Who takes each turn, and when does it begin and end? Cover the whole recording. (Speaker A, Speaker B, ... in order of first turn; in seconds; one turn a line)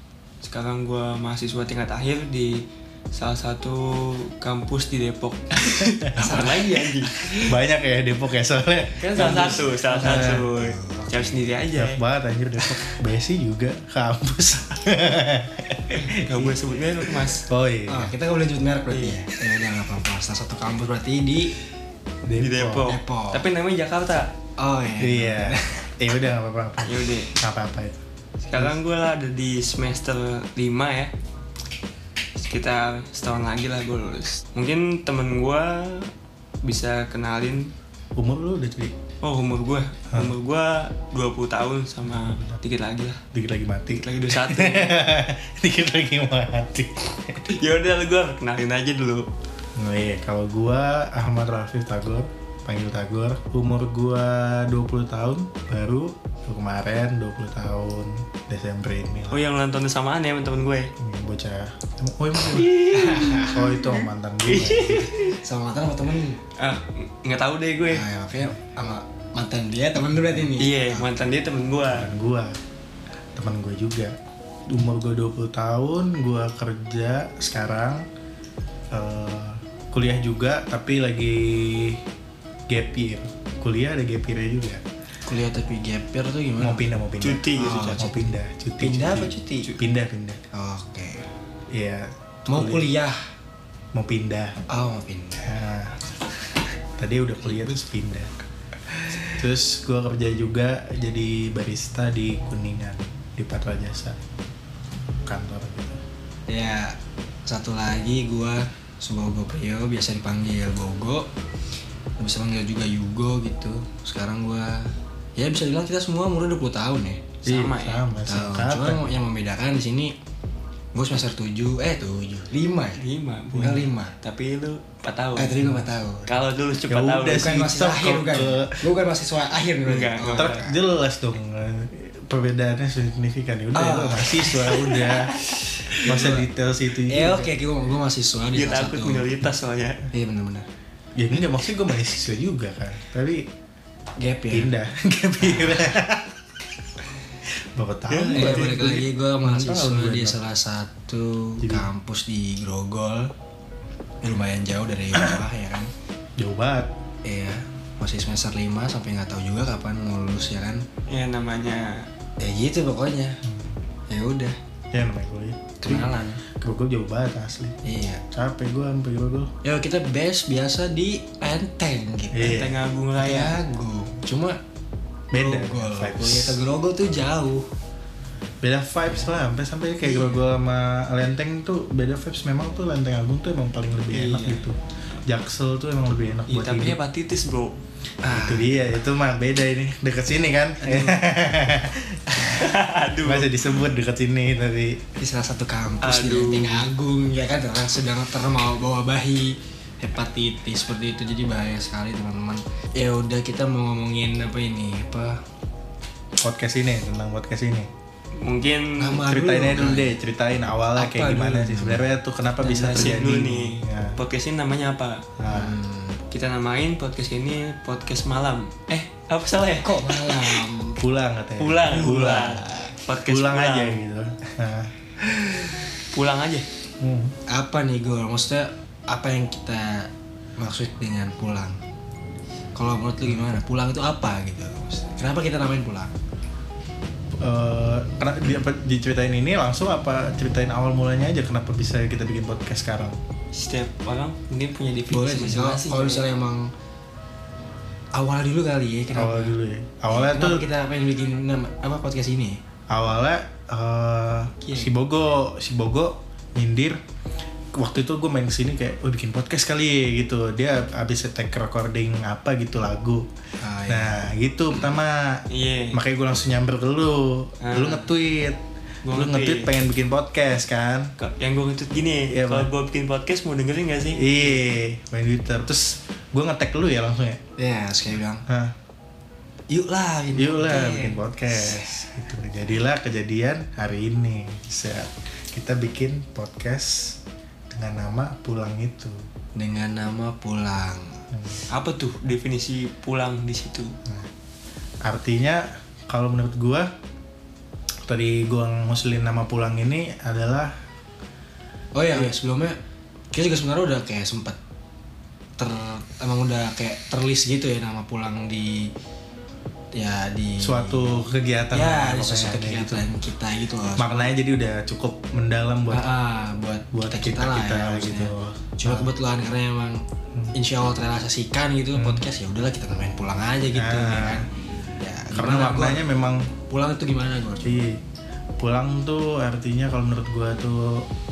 Speaker A: 0.4-7.5
Speaker B: 6.2-7.5
Speaker C: 7.4-10.5
Speaker A: 9.0-12.0
Speaker B: 9.2-11.5
Speaker C: 11.8-16.6
Speaker A: 15.9-17.5
Speaker C: 17.5-18.1
Speaker B: 17.9-21.5
Speaker A: 18.9-19.2
Speaker C: 22.2-22.9
Speaker A: 22.4-24.3
Speaker B: 22.8-23.4
Speaker B: 24.6-25.9
Speaker C: 25.0-28.0
Speaker A: 26.9-27.3
Speaker A: 28.4-31.1
Speaker A: 32.4-36.1
Speaker A: 36.6-37.7
Speaker C: 38.2-38.9
Speaker A: 39.2-43.2
Speaker C: 42.1-42.6
Speaker C: 43.3-47.4
Speaker A: 43.9-45.0
Speaker A: 47.5-49.3
Speaker C: 49.8-59.4
Speaker A: 59.3-60.9
Speaker C: 61.0-65.1
Speaker A: 62.4-65.4
Speaker B: 62.9-63.6
Speaker B: 65.4-66.4
Speaker A: 66.6-68.0
Speaker B: 67.9-71.1
Speaker A: 70.6-72.1
Speaker C: 71.9-72.5
Speaker C: 73.4-74.1
Speaker C: 74.7-78.0
Speaker C: 78.9-82.0
Speaker C: 82.7-84.8
Speaker B: 85.2-86.9
Speaker C: 86.6-90.4
Speaker A: 87.2-88.0
Speaker B: 87.6-88.2
Speaker B: 88.8-89.7
Speaker B: 90.5-91.3
Speaker C: 91.7-92.9
Speaker B: 92.5-93.2
Speaker C: 93.9-94.6
Speaker B: 94.7-95.5
Speaker C: 95.4-96.1
Speaker C: 97.0-98.3
Speaker B: 98.9-99.2
Speaker C: 99.4-104.2
Speaker C: 105.2-106.0
Speaker B: 106.5-111.3
Speaker B: 112.2-117.2
Speaker A: 117.4-118.1
Speaker C: 117.5-119.1
Speaker B: 118.2-120.2
Speaker B: 120.9-124.1
Speaker A: 123.0-125.6
Speaker B: 125.4-126.3
Speaker A: 126.3-127.5
Speaker C: 126.9-128.9
Speaker B: 127.3-130.8
Speaker A: 129.8-130.7
Speaker C: 130.3-135.3
Speaker B: 133.7-136.5
Speaker C: 136.0-137.5
Speaker B: 137.1-139.3
Speaker A: 138.5-140.0
Speaker B: 140.1-140.7
Speaker C: 141.2-143.5
Speaker B: 144.2-144.8
Speaker C: 144.5-146.3
Speaker B: 145.5-145.9
Speaker C: 147.8-150.4
Speaker A: 148.1-149.0
Speaker B: 148.3-153.3
Speaker C: 151.6-151.9
Speaker B: 154.2-155.9
Speaker C: 155.1-155.4
Speaker C: 156.4-156.9
Speaker B: 157.2-160.8
Speaker A: 161.1-162.1
Speaker B: 162.4-163.4
Speaker C: 163.4-163.8
Speaker B: 164.1-164.6
Speaker C: 164.9-167.8
Speaker B: 165.8-166.4
Speaker B: 167.8-168.2
Speaker C: 168.3-169.5
Speaker B: 169.6-172.6
Speaker C: 172.3-172.8
Speaker A: 172.4-173.6
Speaker B: 173.2-174.6
Speaker C: 175.3-176.6
Speaker B: 175.3-177.7
Speaker C: 178.6-187.0
Speaker B: 180.1-180.4
Speaker A: 184.1-184.7
Speaker A: 186.5-187.8
Speaker B: 188.2-188.8
Speaker C: 188.3-192.4
Speaker B: 190.8-191.2
Speaker A: 192.4-193.6
Speaker C: 193.2-195.0
Speaker B: 195.2-205.4
Speaker A: 196.0-196.9
Speaker C: 206.4-207.9
Speaker A: 208.4-209.4
Speaker B: 209.0-210.2
Speaker C: 209.3-214.2
Speaker B: 211.0-212.1
Speaker A: 212.6-215.2
Speaker C: 215.4-215.8
Speaker B: 215.5-216.2
Speaker A: 216.3-220.7
Speaker B: 219.8-221.0
Speaker C: 221.0-222.7
Speaker A: 221.6-224.0
Speaker B: 221.9-223.0
Speaker C: 223.2-224.9
Speaker A: 226.1-226.7
Speaker C: 227.0-227.3
Speaker B: 227.5-231.8
Speaker B: 232.8-236.1
Speaker C: 237.4-243.2
Speaker A: 243.5-246.3
Speaker B: 245.1-246.7
Speaker B: 248.1-249.6
Speaker C: 249.1-250.6
Speaker B: 250.1-252.6
Speaker C: 252.9-257.0
Speaker A: 254.6-254.9
Speaker C: 257.8-263.2
Speaker B: 263.6-264.2
Speaker C: 263.9-265.4
Speaker A: 265.5-266.0
Speaker C: 265.9-268.6
Speaker A: 267.6-268.1
Speaker A: 269.0-269.7
Speaker C: 269.1-271.1
Speaker A: 271.2-274.6
Speaker C: 272.3-272.7
Speaker C: 274.2-277.4
Speaker B: 277.6-278.4
Speaker C: 278.5-278.7
Speaker B: 279.7-282.1
Speaker C: 280.3-287.2
Speaker C: 287.7-289.2
Speaker B: 289.6-291.2
Speaker C: 291.3-291.6
Speaker A: 291.7-294.0
Speaker C: 295.0-296.9
Speaker C: 298.1-300.7
Speaker B: 301.9-302.8
Speaker B: 303.3-304.6
Speaker B: 305.6-308.9
Speaker B: 309.9-314.3
Speaker C: 310.6-313.1
Speaker C: 314.0-316.1
Speaker B: 315.9-320.0
Speaker C: 316.9-319.1
Speaker B: 320.5-324.5
Speaker C: 321.9-322.2
Speaker C: 323.7-324.5
Speaker B: 325.0-326.1
Speaker C: 325.3-326.5
Speaker B: 326.7-327.8
Speaker C: 327.6-328.0
Speaker C: 328.6-331.1